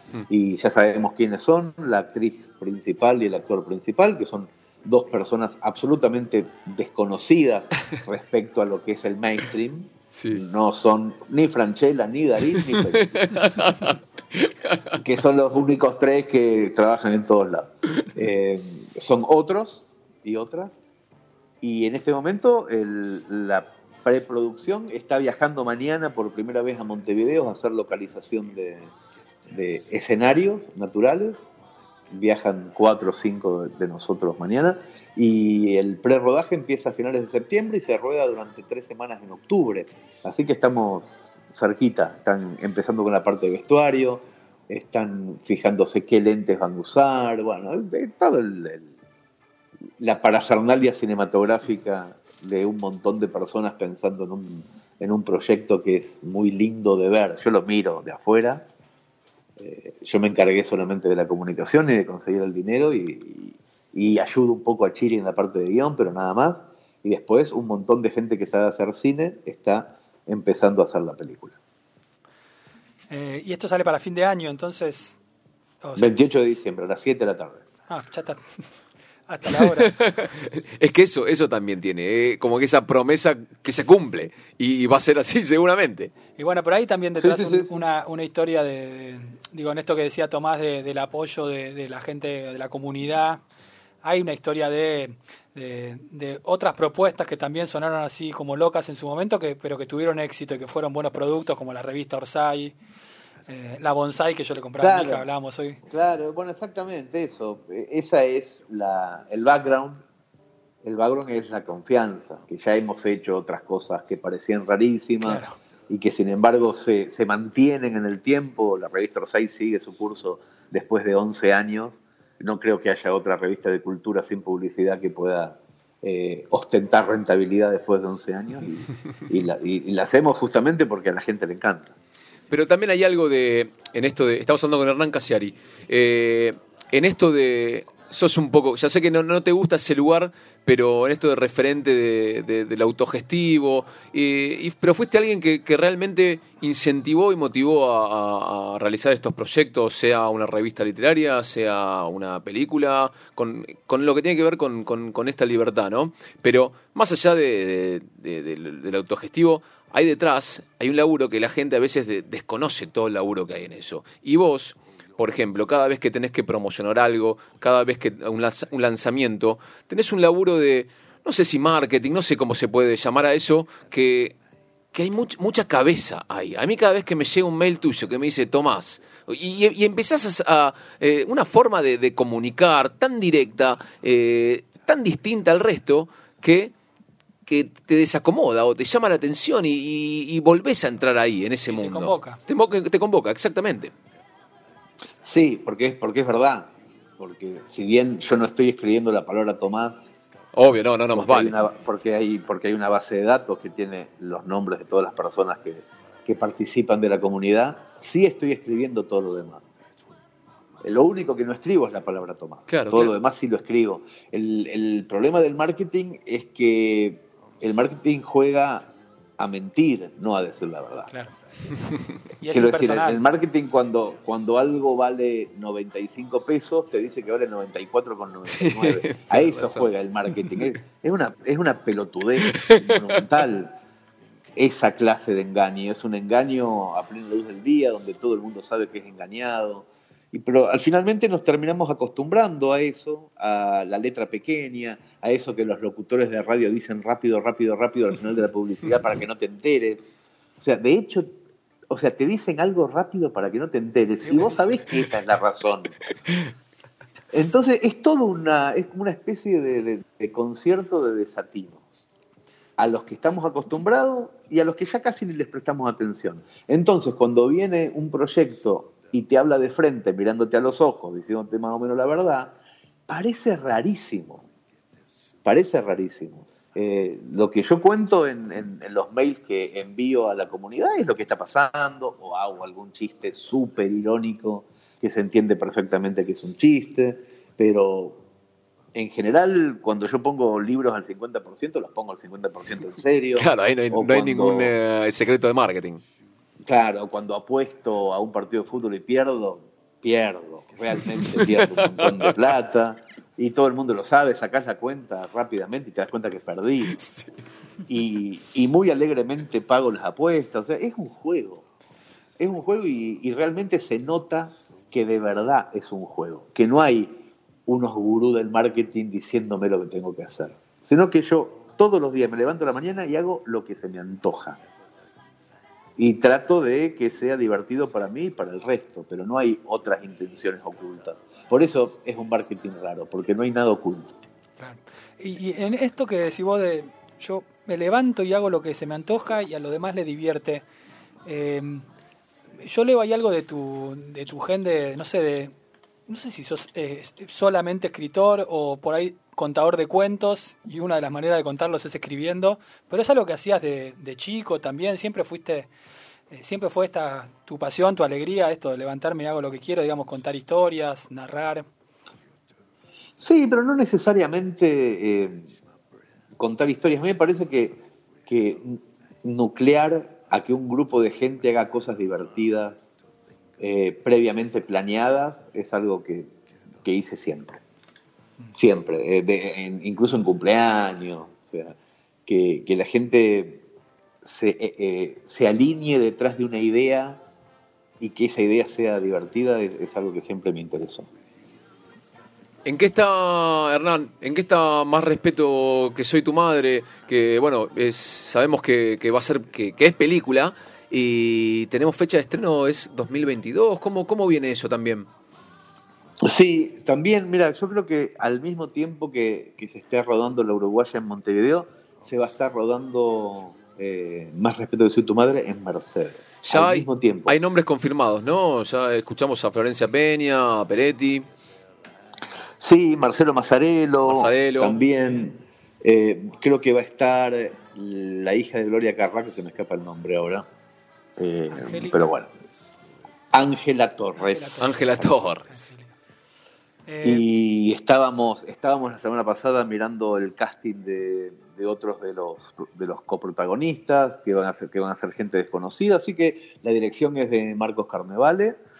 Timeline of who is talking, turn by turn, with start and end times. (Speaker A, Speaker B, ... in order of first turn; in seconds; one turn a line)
Speaker A: 0.3-13.3
Speaker B: 10.1-10.4
Speaker B: 12.5-15.0
Speaker A: 14.9-20.7
Speaker A: 21.6-28.9
Speaker A: 29.5-31.4
Speaker A: 32.1-48.9
Speaker A: 50.0-58.7
Speaker A: 59.6-71.6
Speaker C: 73.1-75.2
Speaker C: 75.8-76.2
Speaker A: 76.0-77.6
Speaker C: 77.9-78.6
Speaker C: 79.3-80.0
Speaker B: 79.5-86.1
Speaker C: 86.4-93.4
Speaker A: 87.2-87.7
Speaker C: 94.0-102.8
Speaker C: 103.5-105.8
Speaker A: 104.8-105.3
Speaker A: 105.9-110.0
Speaker A: 110.8-131.9
Speaker C: 115.2-115.5
Speaker B: 132.5-174.4
Speaker B: 174.9-186.7
Speaker B: 187.4-193.9
Speaker C: 191.7-192.4
Speaker A: 195.2-200.0
Speaker B: 200.5-201.6
Speaker A: 201.1-209.6
Speaker A: 210.8-221.1
Speaker B: 212.7-213.1
Speaker C: 222.4-223.2
Speaker A: 222.5-233.8
Speaker B: 228.5-229.9
Speaker B: 232.4-233.2
Speaker A: 234.6-250.1
Speaker A: 250.6-251.3
Speaker A: 251.9-256.0
Speaker C: 254.3-254.6
Speaker A: 257.3-261.9
Speaker A: 262.8-272.6
Speaker A: 273.1-274.5
Speaker A: 275.4-288.2
Speaker A: 288.9-294.7
Speaker B: 293.3-296.0
Speaker A: 296.6-306.9
Speaker B: 301.1-302.4
Speaker B: 307.0-307.3
Speaker A: 307.9-311.6
Speaker A: 312.4-317.1
Speaker A: 317.7-324.6
Speaker A: 326.0-334.1
Speaker C: 334.6-340.6
Speaker C: 341.2-341.9
Speaker C: 342.6-345.5
Speaker C: 346.1-355.7
Speaker C: 356.3-361.6
Speaker A: 363.2-365.5
Speaker A: 366.4-372.8
Speaker A: 373.6-376.3
Speaker A: 376.8-377.6
Speaker A: 378.5-383.6
Speaker A: 384.2-387.2
Speaker A: 388.0-391.1
Speaker B: 392.6-405.1
Speaker A: 406.2-417.3
Speaker B: 416.4-421.2
Speaker A: 422.6-430.4
Speaker B: 424.0-424.8
Speaker A: 431.2-432.3
Speaker C: 431.5-432.1
Speaker A: 433.3-435.0
Speaker C: 434.1-435.9
Speaker B: 434.6-435.6
Speaker C: 436.9-437.2
Speaker A: 437.0-448.6